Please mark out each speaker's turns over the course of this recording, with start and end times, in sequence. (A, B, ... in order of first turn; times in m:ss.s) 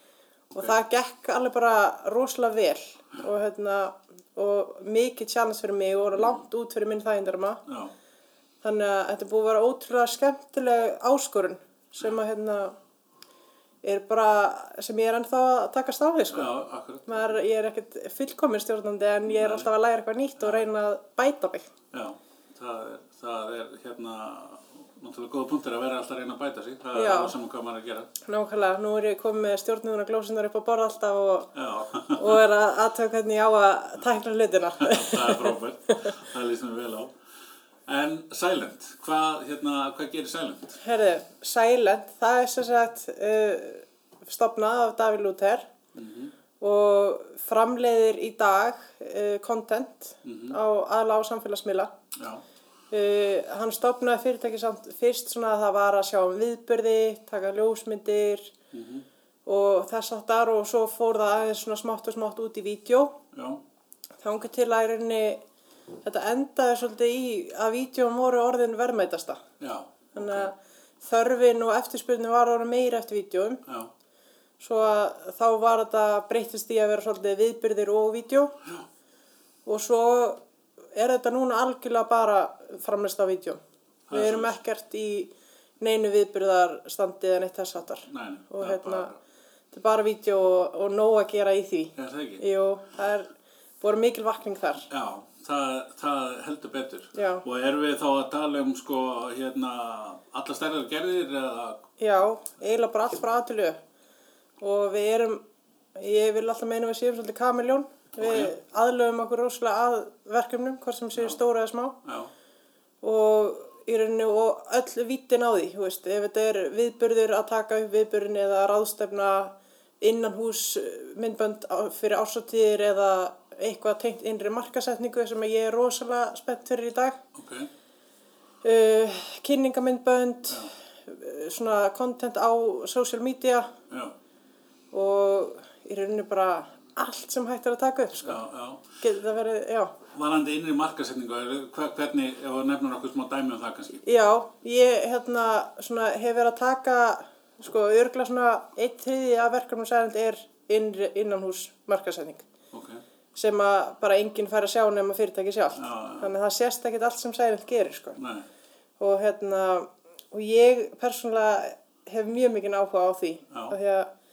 0:00.5-0:07.6 A
0:07.7-0:07.9 B
0:08.6-0:12.8 A
0:13.8-0:21.7 A
0:16.3-0:17.4 B
0:19.3-0:19.7 B
0:20.4-0:20.7 B
0:21.9-0:28.1 B
0:26.9-0:27.3 A
0:28.2-0:31.5 A
0:31.6-0:32.4 B
0:32.1-0:36.2 A
0:34.8-0:37.2 B
0:37.9-0:40.8 B
0:40.8-0:45.7 A
0:45.9-0:46.3 B
0:46.6-0:51.9 A
0:50.2-0:50.6 B
0:52.1-0:52.4 B
0:52.9-0:58.5 A
0:58.7-0:59.1 B
0:59.5-1:03.2 A
1:03.3-1:03.6 B
1:04.2-1:05.4 A
1:06.0-1:09.4 A
1:09.6-1:10.5 B
1:10.2-1:13.6 A
1:13.7-1:13.9 B
1:14.6-1:18.6 A
1:19.7-1:20.4 A
1:21.0-1:23.6 A
1:24.1-1:24.6 B
1:24.1-1:29.1 A
1:28.1-1:29.2 B
1:29.7-1:33.3 A
1:32.0-1:32.4 B
1:33.8-1:34.9 A
1:34.9-1:41.9 B
1:37.1-1:37.4 A
1:42.0-1:43.8 A
1:44.6-1:45.4 A
1:46.0-1:52.0 A
1:48.2-1:48.5 B
1:52.0-1:52.3 B
1:53.0-2:07.2 A
2:07.4-2:07.7 B
2:08.6-2:13.7 A
2:13.9-2:14.1 B
2:14.9-2:18.4 A
2:18.2-2:18.8 B
2:19.0-2:19.9 A
2:20.1-2:24.0 B
2:24.0-2:32.4 A
2:32.7-2:33.0 B
2:33.4-2:38.2 A
2:35.8-2:36.3 B
2:38.2-2:38.5 B
2:39.0-2:44.1 A
2:43.5-2:43.8 B